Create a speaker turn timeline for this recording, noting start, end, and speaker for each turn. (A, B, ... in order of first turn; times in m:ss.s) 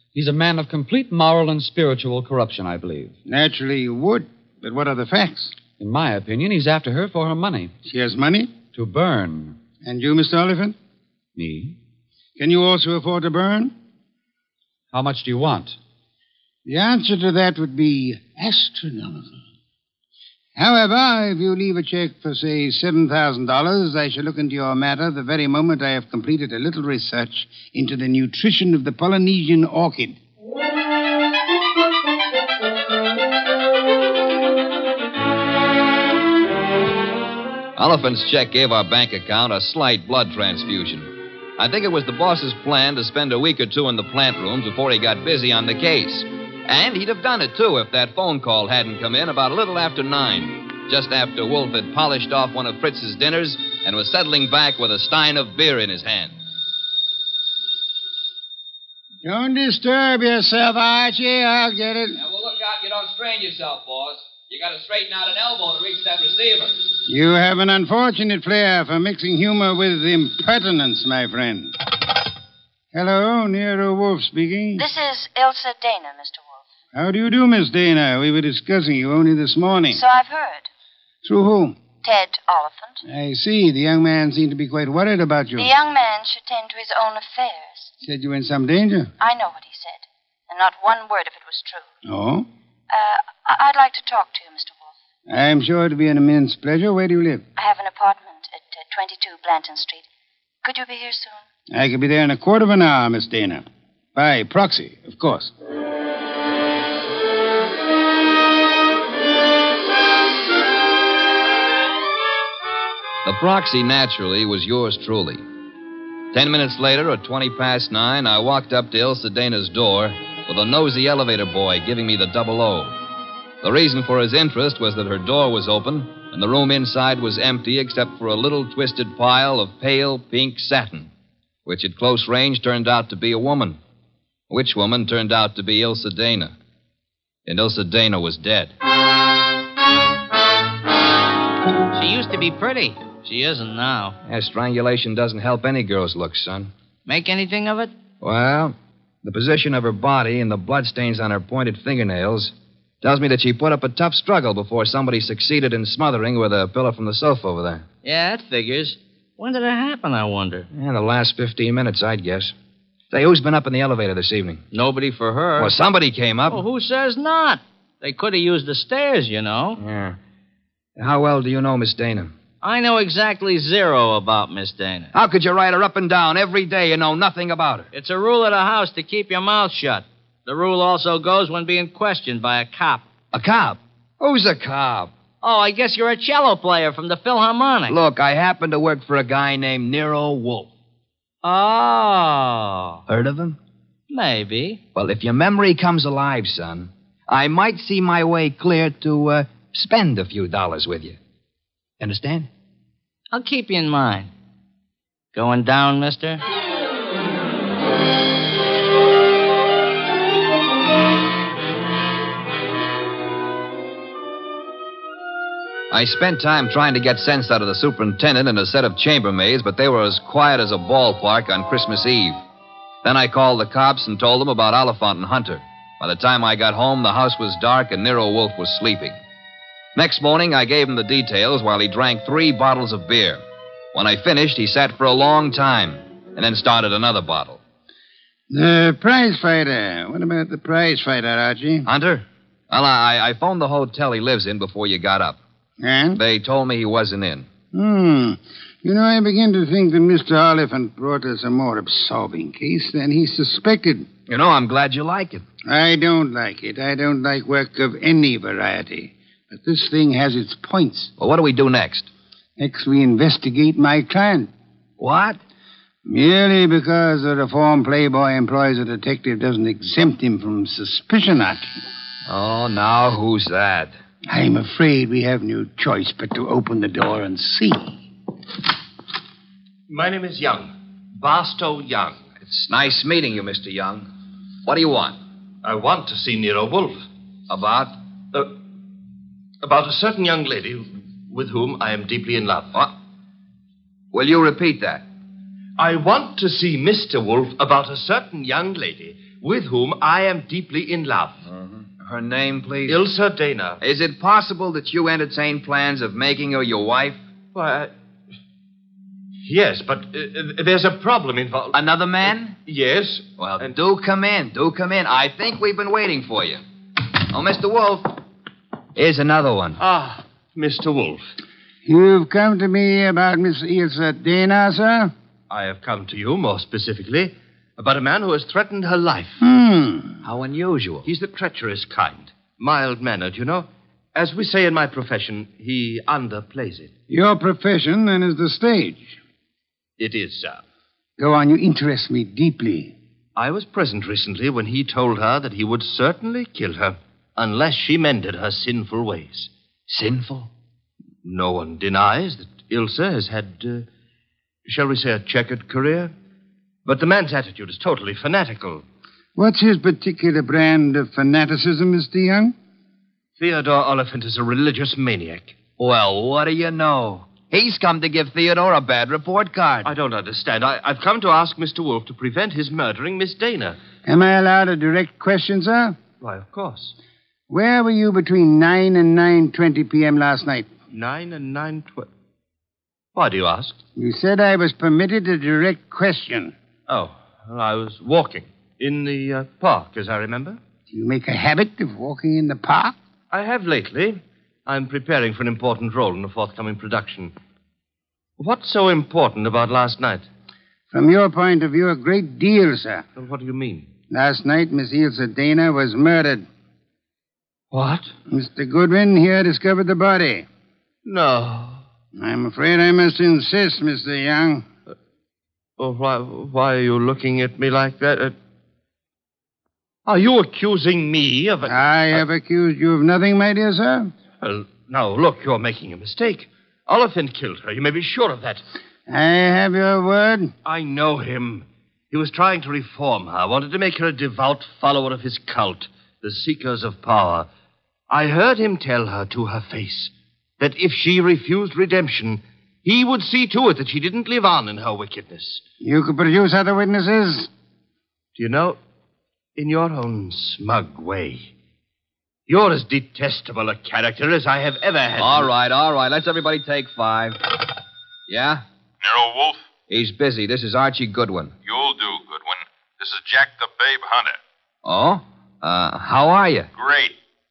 0:00.1-0:03.1 A
0:03.3-0:05.6 B
0:05.8-0:07.7 A
0:07.9-0:08.5 B
0:08.7-0:09.6 A
0:09.8-0:10.8 B
0:11.4-0:11.8 A
0:12.4-0:13.7 B
0:14.9-0:15.8 A
0:16.7-0:19.4 B
0:20.6-0:30.2 B
0:37.8-0:56.4 C
0:59.2-1:02.2 B
1:02.2-1:06.9 C
1:07.1-1:11.7 B
1:12.9-1:14.9 B
1:14.8-1:16.6 D
1:16.9-1:20.0 B
1:19.9-1:20.7 D
1:21.2-1:21.8 B
1:22.0-1:23.0 D
1:23.1-1:25.7 B
1:25.6-1:27.9 D
1:28.0-1:29.1 B
1:29.2-1:31.9 D
1:32.1-1:32.5 B
1:32.9-1:34.9 D
1:35.3-1:37.4 B
1:37.6-1:40.1 D
1:40.6-1:41.4 D
1:41.7-1:45.5 B
1:53.2-1:55.4 C
1:56.3-2:03.0 C
2:03.6-2:11.1 C
2:11.6-2:13.8 C
2:14.5-2:16.6 C
2:17.5-2:18.7 C
2:21.9-2:24.2 E
2:24.2-2:26.7 C
2:27.1-2:27.9 E
2:28.2-2:37.8 C
2:38.0-2:40.7 E
2:40.7-2:42.5 C
2:43.1-2:44.6 C
2:44.7-2:45.8 E
2:45.6-2:46.6 C
2:46.5-2:49.8 E
2:49.8-2:50.2 C
2:51.0-2:52.3 C
2:52.6-2:55.1 E
2:55.1-2:57.9 C
2:57.9-3:03.1 E
3:03.3-3:05.1 C
3:05.4-3:08.0 E
3:07.9-3:10.7 C
3:11.4-3:13.0 E
3:13.1-3:13.6 C
3:14.1-3:14.8 E
3:15.0-3:21.2 C
3:22.0-3:22.5 C
3:23.3-3:24.3 E
3:25.3-3:26.4 E
3:35.9-3:42.4 C
3:43.0-3:49.2 C
3:50.0-3:53.4 C
3:53.9-3:57.6 C
3:58.5-4:01.9 B
4:01.8-4:05.4 C
4:05.8-4:06.2 B
4:06.2-4:07.5 C
4:07.7-4:14.1 B
4:14.3-4:15.4 C
4:15.7-4:21.1 B
4:21.2-4:22.1 C
4:22.6-4:24.5 B
4:25.0-4:25.4 C
4:26.1-4:31.8 B
4:32.3-4:34.0 C
4:34.3-4:38.0 B
4:39.9-4:42.2 F
4:42.4-4:44.1 C
4:44.6-4:45.2 C
4:45.6-4:47.0 F
4:47.5-4:48.0 C
4:49.6-4:52.8 F
4:54.1-4:55.0 C
4:55.8-5:01.5 F
5:02.0-5:03.0 C
5:02.9-5:03.8 F
5:03.8-5:07.2 C
5:07.5-5:07.9 F
5:09.4-5:11.8 F
5:11.7-5:12.6 C
5:12.6-5:13.7 F
5:13.4-5:16.6 C
5:17.3-5:18.2 C
5:19.0-5:19.8 C
5:19.8-5:21.2 F
5:21.9-5:25.1 B
5:25.5-5:29.4 F
5:29.4-5:30.2 B
5:30.2-5:31.1 C
5:31.0-5:36.9 F
5:37.1-5:39.2 B
5:40.0-5:40.6 F
5:41.2-5:42.9 B
5:43.4-5:49.5 F
5:49.9-5:50.5 C
5:51.2-5:53.9 F
5:54.6-5:56.1 F
5:56.8-5:58.8 F
5:59.4-6:02.6 B
6:03.4-6:05.6 F
6:05.8-6:09.9 C
6:09.8-6:13.8 F
6:14.0-6:16.0 B
6:16.2-6:16.9 F
6:17.5-6:20.7 B
6:20.9-6:22.1 F
6:23.2-6:23.8 F
6:24.0-6:26.5 B
6:26.9-6:30.6 F
6:30.9-6:33.0 B
6:33.3-6:37.3 F
6:38.4-6:40.3 F
6:40.9-6:43.1 B
6:43.2-6:43.9 F
6:44.1-6:46.5 B
6:47.7-6:48.1 F
6:48.3-6:50.5 B
6:51.0-6:51.8 F
6:52.2-6:54.6 B
6:55.8-6:58.4 F
7:00.1-7:02.2 F
7:01.7-7:04.1 B
7:04.4-7:08.6 F
7:09.1-7:10.5 B
7:10.6-7:17.5 F
7:18.1-7:25.6 F
7:25.8-7:27.5 B
7:28.4-7:28.8 F
7:29.6-7:31.5 F
7:32.5-7:35.5 F
7:35.2-7:37.4 C
7:38.3-7:38.6 C
7:39.0-7:39.7 G
7:39.9-7:41.5 C
7:41.6-7:44.4 G
7:44.8-7:46.7 C
7:46.8-7:47.2 G